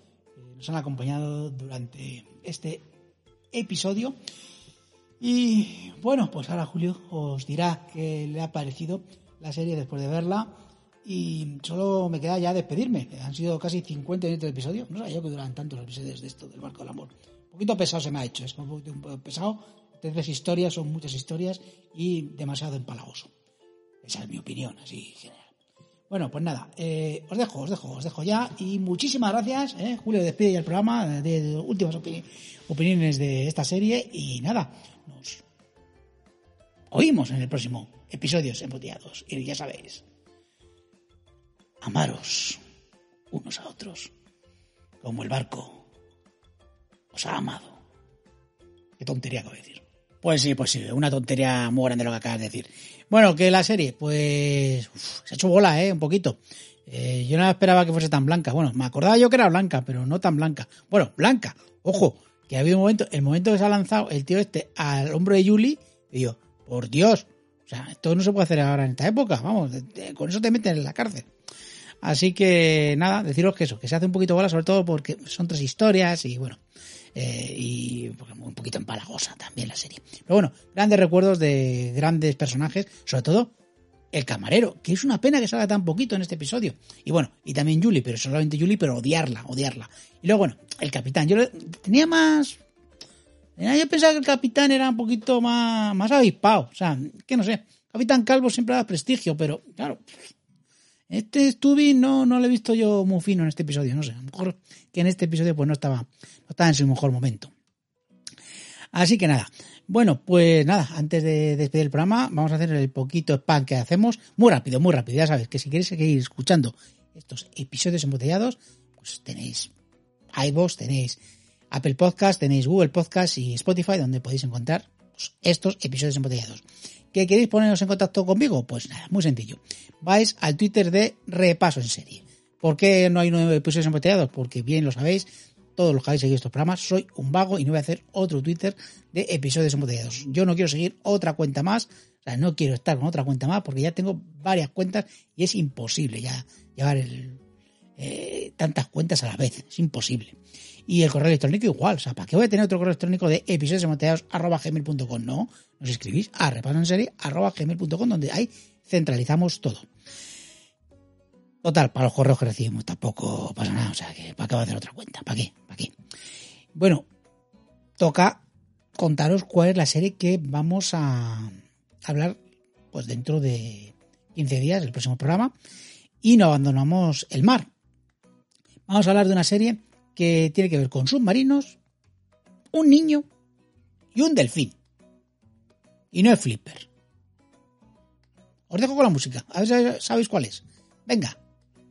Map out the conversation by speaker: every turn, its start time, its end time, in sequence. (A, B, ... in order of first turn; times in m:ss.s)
0:00.4-0:02.9 A
0:03.5-0:04.2 A
0:05.2-0:23.3 A
0:24.0-0:25.5 A
0:26.1-0:35.4 A
0:36.9-0:40.0 A
0:41.8-0:42.6 A
0:43.3-0:44.1 A
0:45.0-0:45.8 A
0:47.1-0:47.8 A
0:49.0-1:11.3 A
1:12.0-1:16.6 A
1:17.2-1:23.5 A
1:24.1-1:32.6 A
1:33.6-1:40.0 A
1:41.1-1:47.5 A
1:48.9-1:59.7 A
2:00.3-2:01.2 A
2:01.7-2:27.4 A
2:28.0-2:39.9 A
2:41.6-2:45.9 A
2:46.8-2:47.1 A
2:48.0-2:48.4 A
2:49.0-2:52.4 A
2:52.9-2:55.5 A
2:56.2-2:57.7 A
2:58.9-3:01.8 A
3:02.7-3:03.3 A
3:04.1-3:04.8 A
3:06.1-3:06.9 A
3:08.7-3:11.4 A